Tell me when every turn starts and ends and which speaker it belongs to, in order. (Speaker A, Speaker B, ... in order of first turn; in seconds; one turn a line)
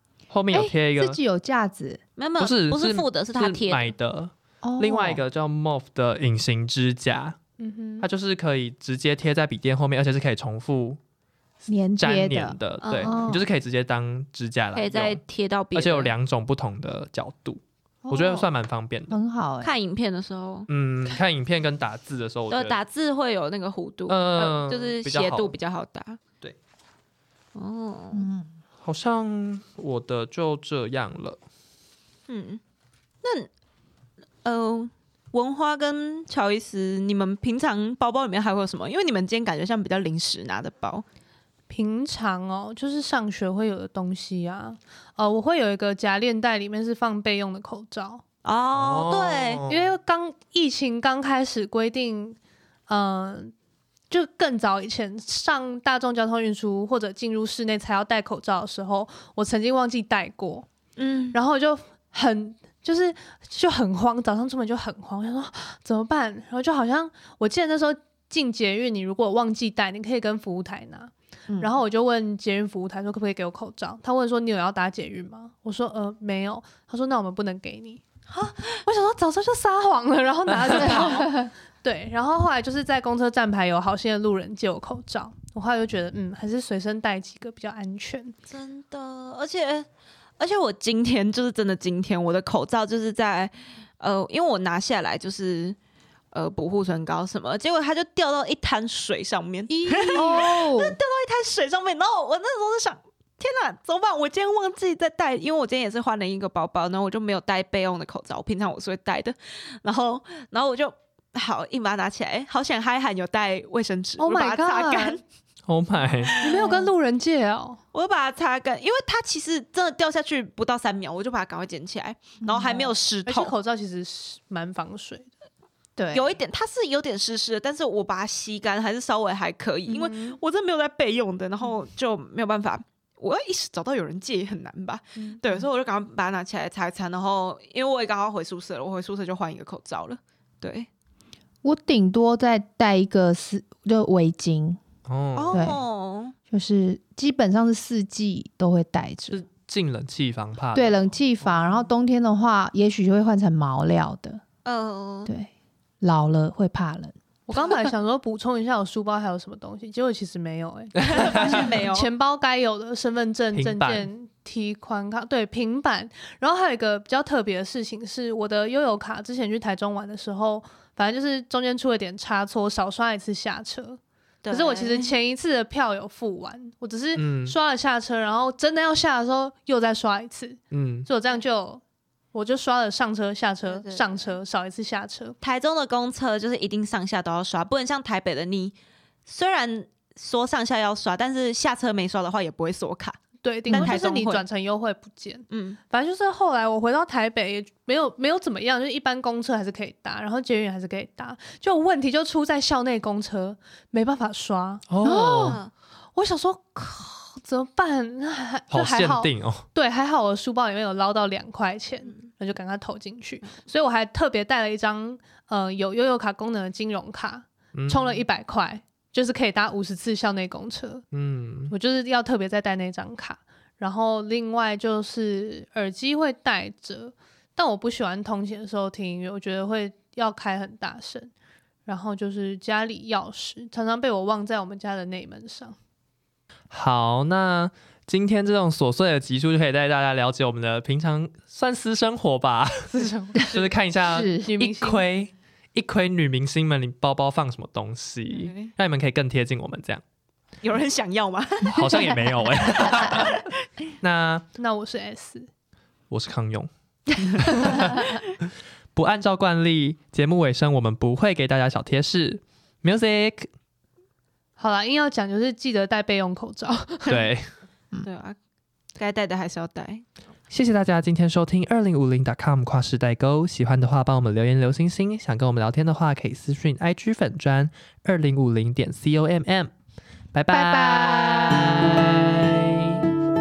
Speaker A: 0.3-1.2
Speaker B: 0.5-2.0
Speaker C: 2.2-3.9
Speaker A: 2.4-7.4
Speaker B: 4.6-5.2
Speaker D: 7.6-8.1
Speaker A: 8.0-11.0
Speaker B: 11.7-13.4
Speaker A: 12.0-15.2
Speaker C: 12.8-13.2
Speaker C: 14.7-16.1
Speaker A: 15.7-19.2
Speaker B: 18.1-18.5
Speaker B: 19.1-19.7
Speaker C: 19.6-20.7
Speaker A: 20.7-22.8
Speaker C: 22.5-26.2
Speaker A: 24.1-25.5
Speaker C: 27.5-28.2
Speaker B: 28.1-28.5
Speaker A: 28.8-31.4
Speaker C: 32.3-32.6
Speaker C: 33.2-33.5
Speaker C: 34.4-41.0
Speaker D: 41.7-48.2
Speaker C: 48.4-49.6
Speaker A: 48.7-49.9
Speaker D: 49.7-53.5
Speaker D: 54.1-60.7
Speaker C: 61.0-61.4
Speaker D: 61.3-78.0
Speaker B: 71.5-71.8
Speaker C: 78.3-78.8
Speaker D: 78.7-88.3
Speaker A: 80.5-81.1
Speaker B: 80.8-81.5
Speaker C: 88.5-89.9
Speaker C: 90.4-95.8
Speaker C: 96.3-115.2
Speaker D: 99.7-100.5
Speaker B: 100.2-101.0
Speaker D: 114.2-115.2
Speaker A: 115.7-116.4
Speaker B: 116.2-116.9
Speaker D: 116.4-117.8
Speaker C: 117.9-123.5
Speaker B: 122.4-122.9
Speaker D: 123.2-125.3
Speaker B: 126.0-126.3
Speaker C: 126.1-140.9
Speaker D: 129.9-130.4
Speaker B: 141.6-144.8
Speaker A: 145.1-145.8
Speaker C: 145.3-146.3
Speaker B: 145.5-145.8
Speaker B: 146.5-149.4
Speaker A: 149.3-151.7
Speaker B: 150.7-154.4
Speaker C: 154.6-155.3
Speaker B: 155.2-157.1
Speaker D: 157.5-181.8
Speaker C: 157.5-157.9
Speaker A: 161.0-161.7
Speaker C: 161.0-162.1
Speaker A: 163.5-164.1
Speaker C: 174.4-175.1
Speaker A: 177.1-177.6
Speaker A: 180.7-181.1
Speaker D: 182.3-185.4
Speaker C: 183.6-184.3
Speaker C: 185.4-188.7
Speaker C: 189.3-194.4
Speaker D: 193.4-205.2
Speaker B: 193.7-194.0
Speaker C: 195.5-195.8
Speaker A: 204.9-205.6
Speaker B: 205.0-205.6
Speaker C: 205.4-205.7
Speaker D: 206.1-221.1
Speaker A: 208.7-209.6
Speaker A: 217.7-218.2
Speaker A: 221.1-221.7
Speaker D: 221.7-231.3
Speaker D: 231.8-235.8
Speaker A: 236.7-250.0
Speaker D: 242.9-243.7
Speaker B: 244.1-244.4
Speaker D: 244.3-245.0
Speaker C: 248.3-248.7
Speaker C: 250.6-253.5
Speaker A: 251.6-253.5
Speaker A: 254.0-254.4
Speaker D: 254.6-255.5
Speaker A: 256.1-258.2
Speaker A: 258.9-263.5
Speaker D: 264.6-267.2
Speaker A: 267.1-267.5
Speaker C: 268.0-268.4
Speaker C: 269.0-270.0
Speaker A: 270.5-279.7
Speaker A: 280.3-283.1
Speaker B: 280.5-281.9